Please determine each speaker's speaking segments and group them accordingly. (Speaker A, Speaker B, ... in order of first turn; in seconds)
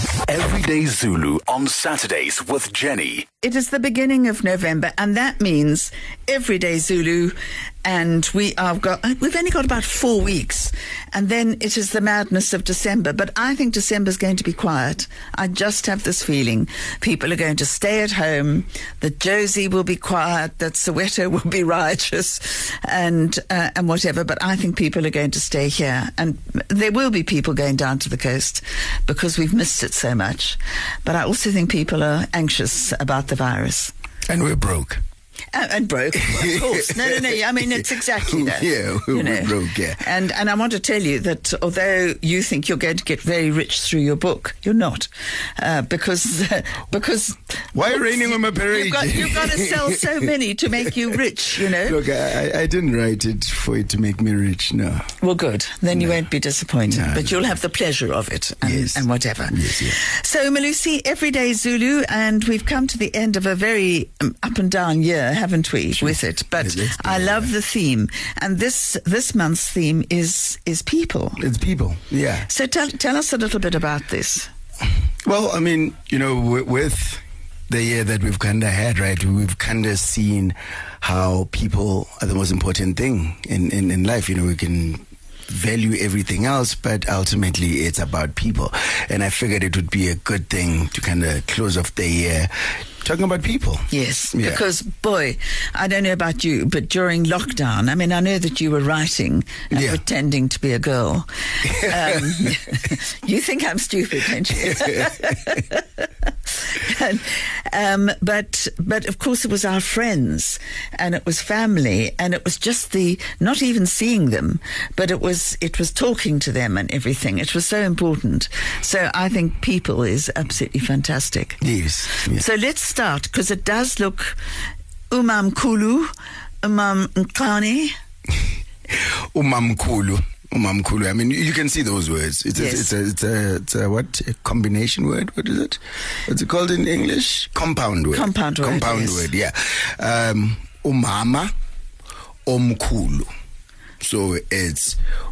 Speaker A: 0.3-3.3
Speaker B: 3.4-33.9, 35.5-52.0, 55.2-71.4, 72.4-74.5, 93.9-121.6, 122.2-124.4, 125.1-126.1, 126.6-127.9, 132.6-132.9, 138.1-139.3
Speaker C: 34.3-35.0, 36.3-40.0, 47.7-50.3, 51.8-55.1, 55.9-56.2, 56.9-57.5, 58.6-60.0, 66.0-67.5, 71.4-72.5, 75.2-92.5, 93.0-94.6, 99.7-100.0, 104.8-105.3, 121.6-122.4, 129.3-141.5, 142.5-143.3, 144.0-145.0